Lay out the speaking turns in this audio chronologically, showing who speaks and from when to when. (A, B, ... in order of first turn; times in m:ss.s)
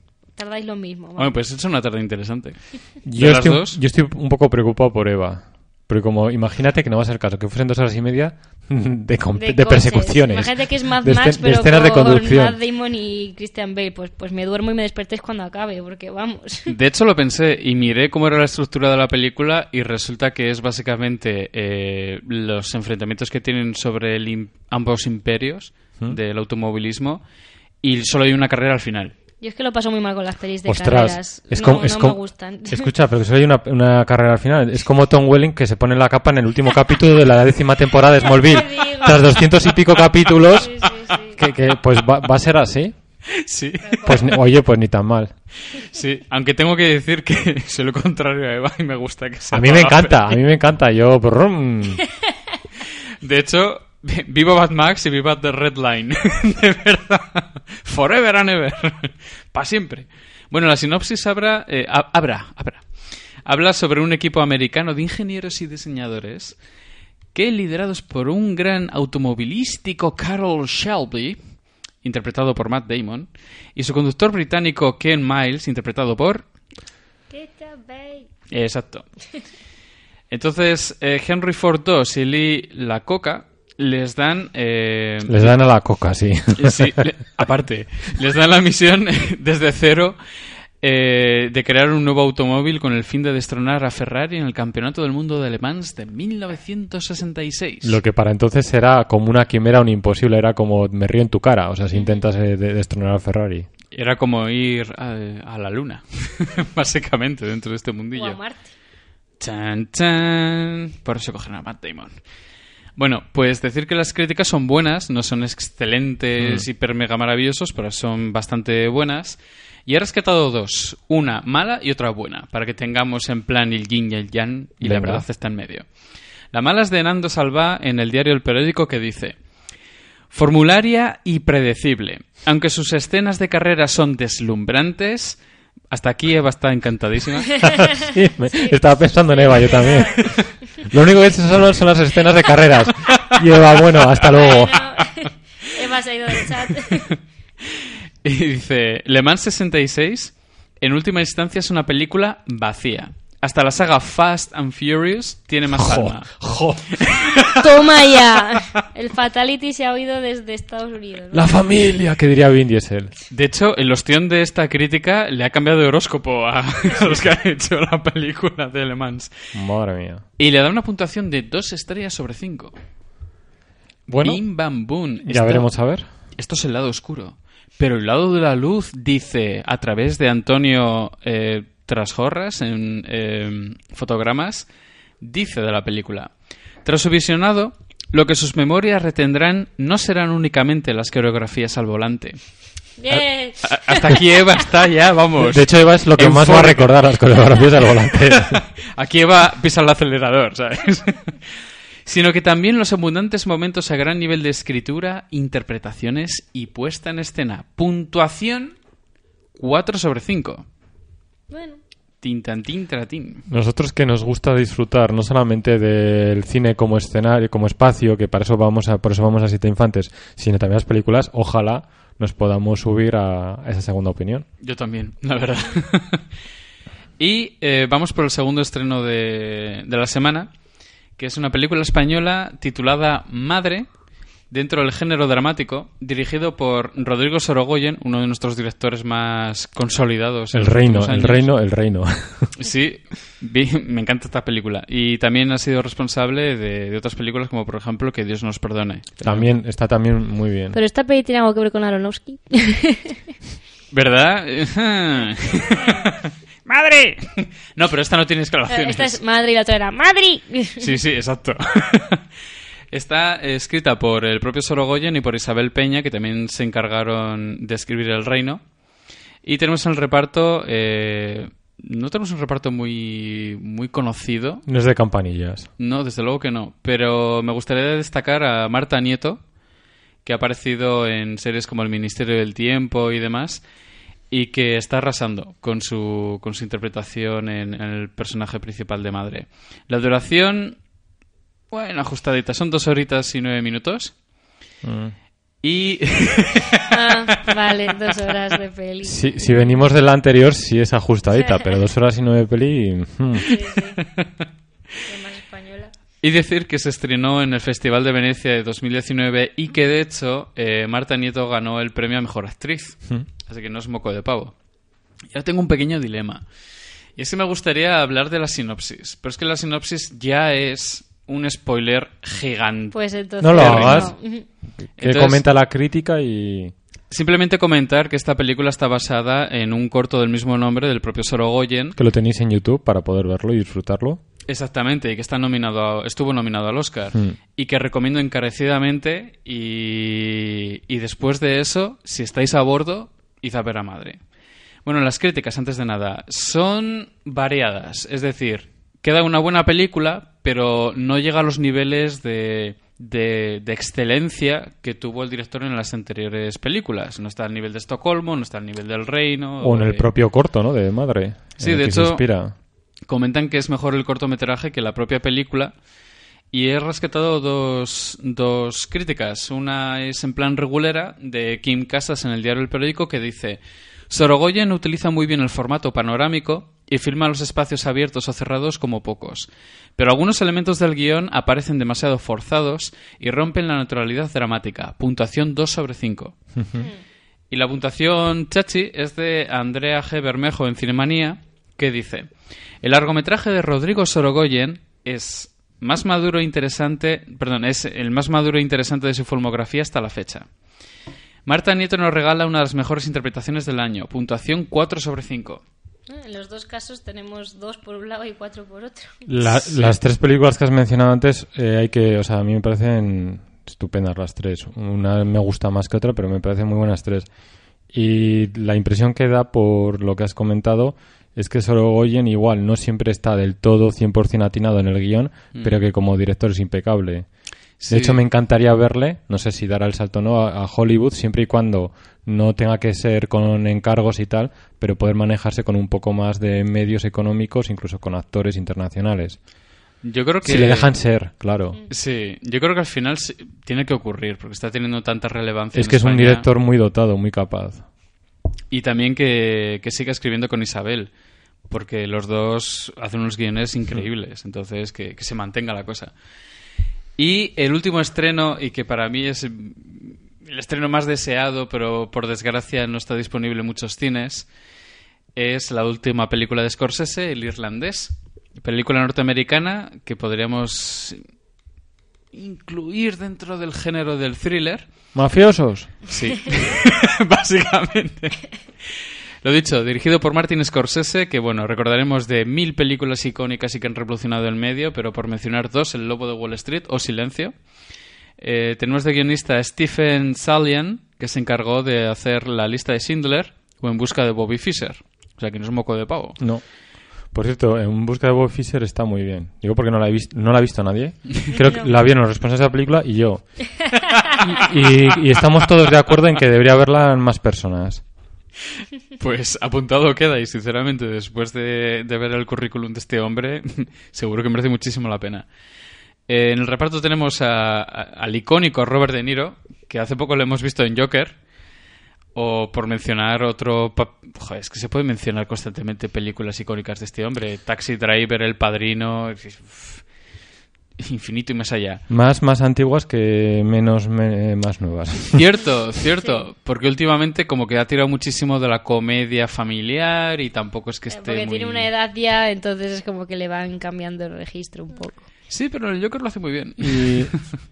0:00.4-0:01.3 A
0:01.2-0:03.8 B
0:03.0-0:12.6 C
0:09.4-0:16.7 A
0:16.7-0:27.2 B
0:27.8-0:29.1 B
0:29.4-0:32.9 A
0:30.6-0:42.9 C
0:38.3-0:39.3 A
0:40.6-0:41.4 A
0:43.4-0:44.3 B
0:43.8-0:44.1 A
0:44.0-0:45.3 C
0:45.7-0:50.3 B
0:49.5-0:52.0 C
0:53.2-1:06.6 B
1:07.3-1:16.5 B
1:17.3-1:18.3 A
1:18.5-1:19.3 B
1:20.3-1:25.5 B
1:25.3-1:26.9 C
1:26.6-1:30.2 B
1:30.8-1:38.0 B
1:37.8-1:43.7 C
1:41.9-1:42.2 A
1:43.9-1:48.4 B
1:48.1-1:48.7 A
1:49.4-1:52.2 B
1:53.0-2:05.9 B
1:56.4-1:56.6 C
2:04.8-2:05.2 C
2:06.5-2:09.4 B
2:10.3-2:15.4 B
2:15.9-2:17.9 B
2:18.1-2:24.8 C
2:18.5-2:20.3 A
2:24.3-2:27.1 A
2:27.8-2:37.6 B
2:35.7-2:37.5 C
2:37.5-2:41.5 A
2:41.3-2:43.1 C
2:43.3-2:49.5 B
2:49.5-2:50.2 C
2:50.4-2:52.7 B
2:54.1-2:55.7 B
2:54.1-2:54.4 C
2:55.2-2:56.1 C
2:56.3-3:04.7 B
3:05.2-3:12.4 B
3:13.0-3:14.1 A
3:13.1-3:17.0 B
3:15.4-3:18.6 C
3:18.4-3:28.8 B
3:29.6-3:30.7 B
3:31.5-3:31.8 A
3:32.2-3:33.4 B
3:33.5-3:44.5 C
3:44.6-3:46.2 B
3:47.2-3:50.5 B
3:51.2-3:53.8 B
3:54.5-4:01.5 B
4:00.5-4:02.5 C
4:02.6-4:09.5 B
4:09.2-4:10.8 C
4:10.7-4:13.2 A
4:13.9-4:19.2 B
4:15.8-4:16.0 A
4:18.7-4:20.9 A
4:20.8-4:22.2 B
4:22.9-4:28.6 B
4:29.4-4:34.6 B
4:34.7-4:35.7 C
4:35.8-4:39.4 B
4:40.2-4:43.6 B
4:44.3-4:50.8 B
4:51.7-4:54.2 B
4:54.8-4:55.2 C
4:55.6-4:56.8 B
4:56.9-4:59.2 A
4:59.0-5:03.4 C
5:03.4-5:04.0 A
5:05.0-5:05.9 A
5:06.2-5:14.5 B
5:15.3-5:16.4 B
5:17.2-5:24.1 B
5:22.9-5:24.4 A
5:23.4-5:24.2 C
5:24.9-5:26.7 C
5:25.0-5:25.4 B
5:27.1-5:32.0 B
5:32.0-5:34.2 C
5:34.5-5:44.2 B
5:44.8-6:00.1 B
5:59.6-6:02.5 C
6:01.6-6:02.2 B
6:03.1-6:05.7 B
6:06.5-6:26.4 B
6:26.6-6:26.8 C
6:27.5-6:40.5 B
6:41.5-6:45.6 B
6:46.1-6:49.2 A
6:49.3-6:57.3 C
6:57.9-7:07.3 C
7:07.8-7:08.2 B
7:07.9-7:19.4 C
7:20.0-7:20.9 B
7:20.4-7:21.8 C
7:21.9-7:26.5 B
7:25.7-7:27.9 C
7:28.7-7:31.1 B
7:31.7-7:36.1 B
7:37.2-7:44.5 B
7:45.4-7:51.2 B
7:52.3-7:54.8 B
7:55.1-7:56.0 C
7:56.1-8:07.6 B
8:08.4-8:16.4 B
8:16.4-8:16.6 C
8:17.3-8:23.8 C
8:21.5-8:21.9 A
8:24.4-8:28.0 C
8:29.2-8:35.5 B
8:36.3-8:41.4 B
8:42.4-8:50.0 B
8:51.0-8:52.0 B
8:52.1-8:55.4 C
8:55.3-9:01.9 B
9:01.1-9:05.2 A
9:05.5-9:07.4 B
9:06.8-9:07.3 C